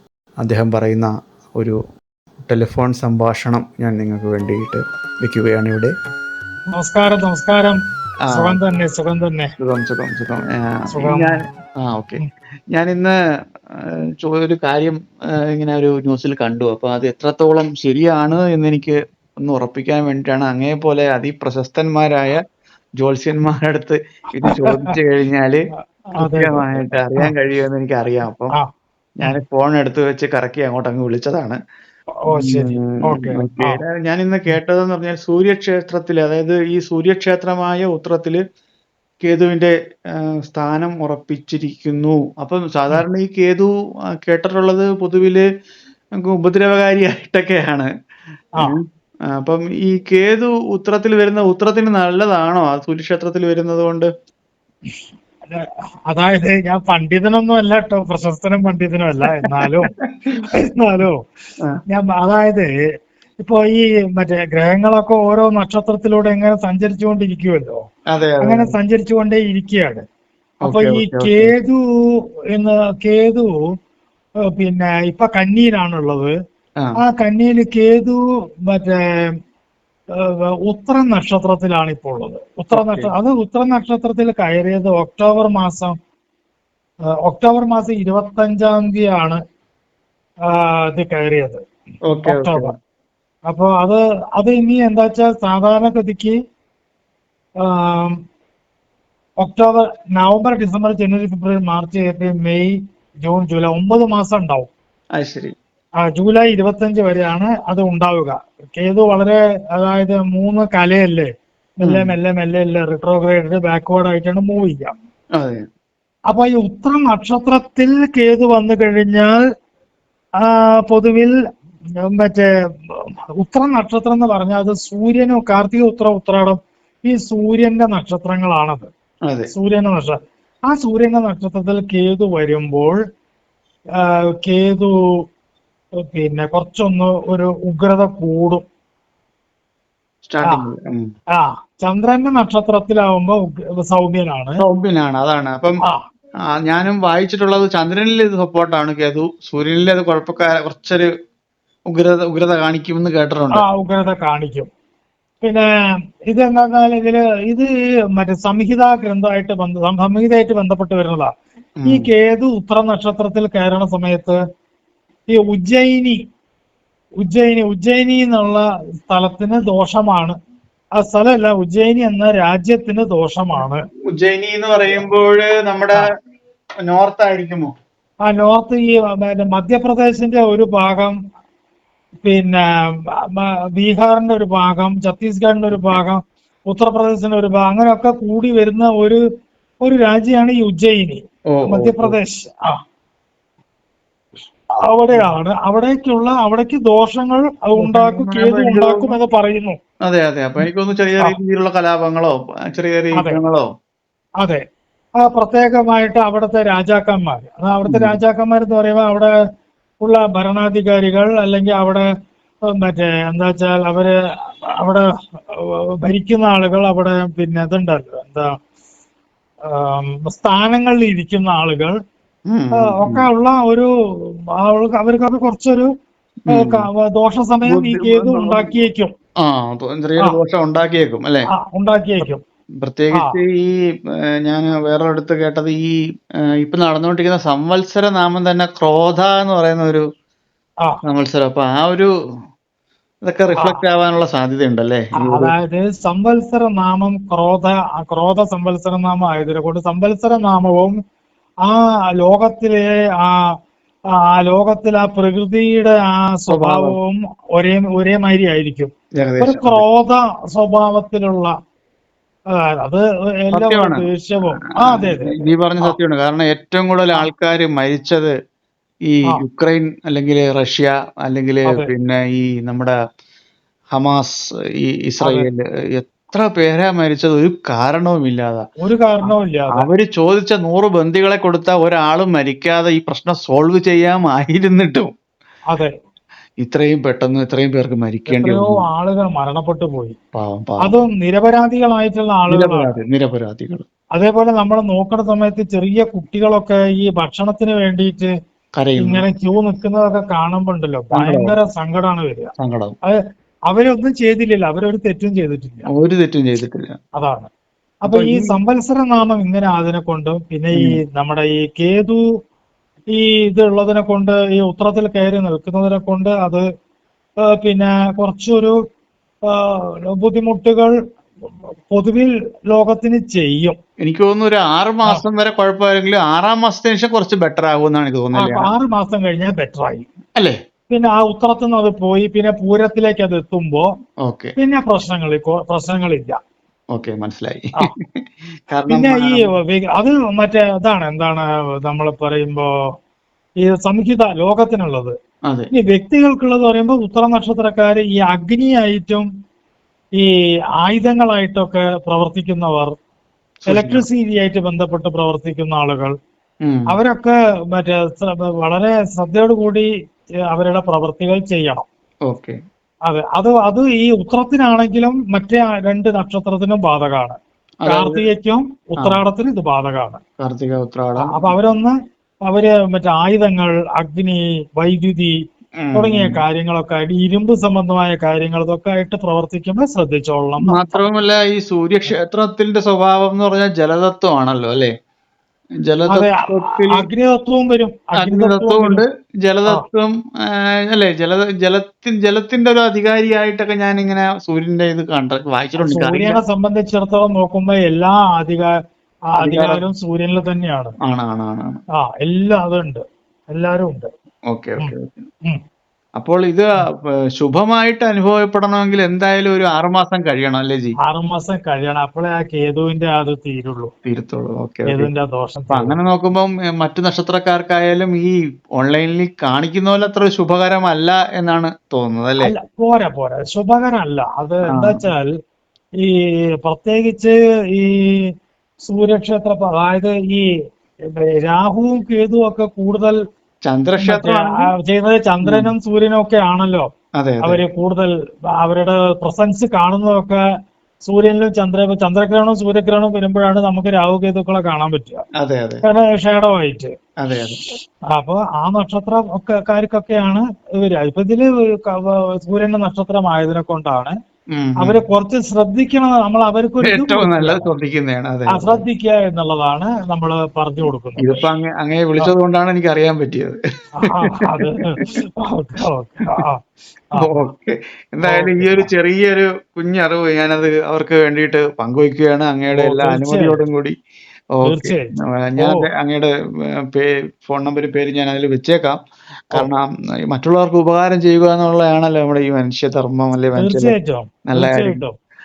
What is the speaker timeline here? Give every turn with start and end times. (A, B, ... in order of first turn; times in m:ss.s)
0:00.4-0:01.8 A
0:02.4-0:05.9 A
0:06.7-0:07.8 B
0:08.3-0:08.6 A
0:08.3-0:09.5 B
0:09.6-0:12.2 A
0:10.9-0:11.4 B
0:12.7-0:13.1 A
0:13.8-0:15.0 A
0:15.5-0:22.4 A
0:23.0-0:25.6 A
0:24.4-0:24.9 B
0:26.2-0:27.3 B
0:26.2-0:28.5 A
0:29.2-0:31.6 A
0:32.2-0:33.8 B
0:32.3-0:38.4 A
0:39.2-0:43.7 A
0:44.2-0:45.4 A
0:46.2-0:47.9 A
0:49.3-0:54.1 A
0:55.5-0:59.9 B
0:59.3-0:59.7 A
1:00.5-1:01.2 B
1:01.9-1:02.7 B
1:03.4-1:07.8 B
1:08.1-1:08.7 A
1:08.4-1:10.0 B
1:10.6-1:11.5 A
1:10.6-1:11.8 B
1:12.5-1:13.5 B
1:14.6-1:16.3 B
1:17.0-1:19.3 B
1:20.2-1:26.0 B
1:22.7-1:23.1 A
1:27.2-1:29.4 B
1:30.5-1:31.6 B
1:32.1-1:32.7 A
1:32.2-1:32.7 B
1:33.5-1:36.4 B
1:37.6-1:38.2 B
1:39.4-1:44.7 B
1:45.2-1:45.5 A
1:46.0-1:51.3 B
1:51.8-1:54.9 B
1:51.8-1:52.1 A
1:55.4-1:55.6 A
1:56.3-1:59.4 B
2:00.4-2:01.3 B
2:02.0-2:08.9 B
2:09.5-2:13.0 B
2:14.0-2:14.9 B
2:16.0-2:18.6 B
2:20.2-2:21.0 A
2:21.3-2:24.6 B
2:24.6-2:25.8 A
2:26.6-2:31.1 A
2:31.9-2:33.6 A
2:33.5-2:34.7 B
2:35.4-2:35.7 B
2:36.3-2:41.3 B
2:41.8-2:42.1 A
2:41.8-2:44.4 B
2:45.3-2:46.2 B
2:47.2-2:50.4 B
2:51.0-2:53.8 B
2:54.1-2:56.0 A
2:56.9-2:57.7 A
2:58.2-3:01.1 B
3:02.2-3:02.6 B
3:03.2-3:09.2 B
3:09.8-3:12.7 B
3:11.5-3:12.2 A
3:14.8-3:19.8 B
3:17.8-3:19.1 A
3:20.0-3:23.6 A
3:25.2-3:29.3 B
3:27.9-3:28.2 A
3:30.0-3:32.0 B
3:32.7-3:34.1 B
3:34.8-3:38.5 B
3:39.7-3:42.0 B
3:42.5-3:43.2 A
3:42.8-3:45.9 B
3:46.5-3:46.9 A
3:46.5-3:49.1 B
3:47.6-3:48.7 A
3:49.4-3:51.5 A
3:51.5-3:52.4 B
3:52.8-3:53.6 A
3:54.4-3:55.9 A
3:56.6-4:00.0 A
4:01.0-4:02.1 A
4:03.2-4:05.5 A
4:05.2-4:11.0 B
4:11.6-4:13.4 B
4:14.2-4:21.5 B
4:16.5-4:17.0 A
4:19.2-4:19.8 A
4:22.5-4:26.0 B
4:23.5-4:24.0 A
4:24.8-4:28.3 A
4:29.1-4:32.9 A
4:34.0-4:38.6 A
4:35.2-4:35.5 B
4:38.8-4:39.8 B
4:39.2-4:45.1 A
4:46.6-4:48.8 A
4:48.3-4:50.2 B
4:50.3-4:51.0 A
4:50.8-4:52.9 B
4:52.5-4:53.8 A
4:54.1-4:58.3 B
4:58.8-4:59.2 A
4:59.0-5:02.5 B
5:01.1-5:01.5 A
5:02.6-5:03.0 A
5:03.7-5:05.9 B
5:05.9-5:07.0 A
5:07.1-5:07.5 B
5:08.0-5:12.2 B
5:08.1-5:08.6 A
5:13.1-5:16.6 B
5:17.4-5:18.8 B
5:19.5-5:20.9 B
5:21.9-5:23.8 B
5:24.0-5:28.7 A
5:28.3-5:30.0 B
5:30.9-5:33.8 B
5:34.2-5:34.5 A
5:34.6-5:36.4 B
5:36.9-5:38.1 A
5:38.7-5:39.5 A
5:38.9-5:42.7 B
5:43.6-5:45.1 B
5:45.7-5:49.2 B
5:50.8-5:52.9 B
5:53.6-5:54.0 A
5:53.7-5:56.1 B
5:56.6-5:56.9 A
5:56.9-5:59.9 B
6:00.5-6:01.8 B
6:02.3-6:02.6 A
6:03.1-6:10.2 B
6:07.8-6:08.2 A
6:10.4-6:11.5 A
6:11.2-6:11.9 B
6:12.4-6:15.3 B
6:15.8-6:16.4 A
6:15.9-6:21.0 B
6:20.6-6:24.9 A
6:25.8-6:27.1 A
6:26.1-6:29.0 B
6:28.2-6:36.4 A
6:35.8-6:38.8 B
6:39.3-6:41.0 B
6:39.4-6:39.8 A
6:41.0-6:41.8 A
6:42.0-6:44.1 B
6:44.5-6:45.2 A
6:46.2-6:50.9 A
6:51.0-6:53.9 B
6:54.0-6:55.1 A
6:54.9-6:56.0 B
6:55.7-7:02.5 A
7:02.4-7:05.3 B
7:04.7-7:05.0 A
7:06.0-7:08.3 B
7:08.8-7:10.5 B
7:11.1-7:13.2 B
7:13.6-7:14.7 A
7:14.0-7:16.9 B
7:15.4-7:15.7 A
7:17.2-7:17.6 A
7:17.4-7:20.4 B
7:21.1-7:25.2 B
7:25.4-7:25.8 A
7:25.8-7:26.9 B
7:27.2-7:27.6 A
7:28.1-7:34.1 B
7:34.5-7:35.0 A
7:34.8-7:37.7 B
7:36.8-7:38.8 A
7:38.5-7:41.4 B
7:41.2-7:43.6 A
7:44.0-7:46.6 B
7:44.4-7:44.7 A
7:47.1-7:47.5 B
7:47.2-7:53.9 A
7:48.2-7:48.9 B
7:52.7-7:53.6 B
7:54.6-7:56.3 A
7:54.6-7:55.8 B
7:56.9-7:59.0 A
7:59.5-8:03.9 A
8:03.6-8:05.1 B
8:04.5-8:05.0 A